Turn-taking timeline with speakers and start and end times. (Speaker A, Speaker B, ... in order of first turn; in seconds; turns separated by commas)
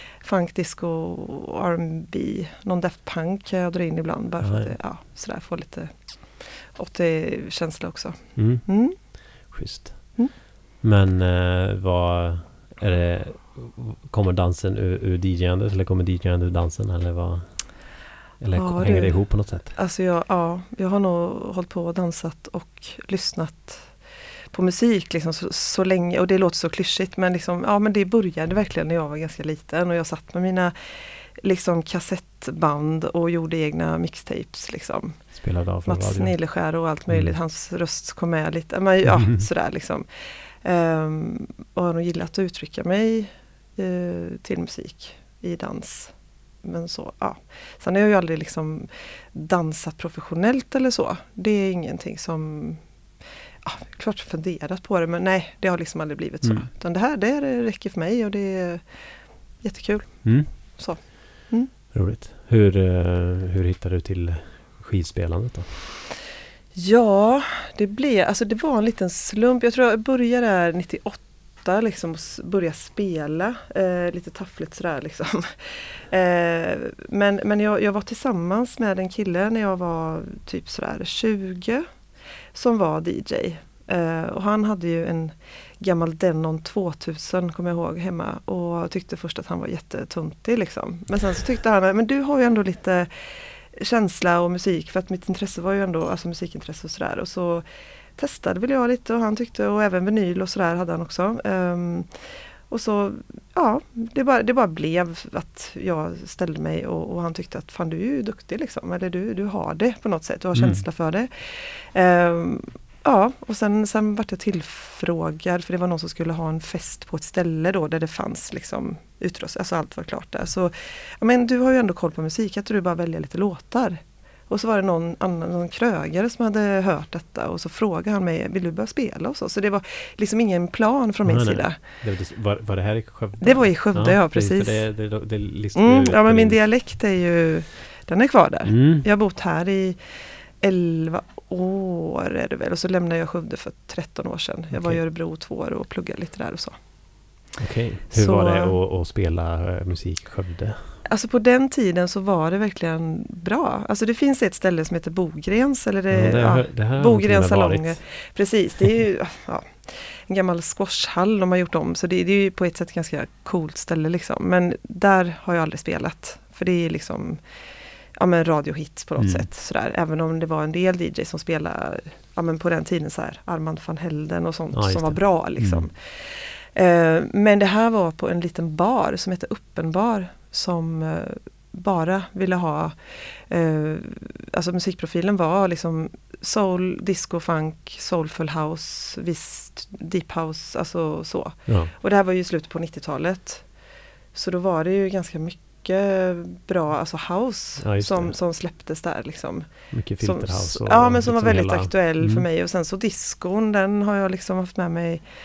Speaker A: 0.2-9.0, Speaker B: 4.4-4.7, Speaker B: 8.4-19.8, Speaker A: 18.5-53.1, Speaker B: 35.4-36.6, Speaker B: 37.1-37.4, Speaker B: 39.1-39.5, Speaker A: 53.6-61.7, Speaker B: 60.2-61.3, Speaker B: 61.9-65.8, Speaker A: 66.8-81.9, Speaker A: 82.5-93.1, Speaker A: 93.7-97.7, Speaker A: 98.2-132.0, Speaker B: 110.5-110.8, Speaker B: 131.2-136.6, Speaker A: 133.4-146.8, Speaker B: 138.7-139.1, Speaker B: 144.7-145.0, Speaker B: 147.6-151.0, Speaker A: 148.1-148.8, Speaker A: 151.1-167.6, Speaker B: 156.1-158.0, Speaker A: 168.2-205.2, Speaker B: 169.2-169.5, Speaker B: 174.7-175.9, Speaker B: 197.8-198.4, Speaker B: 199.9-202.5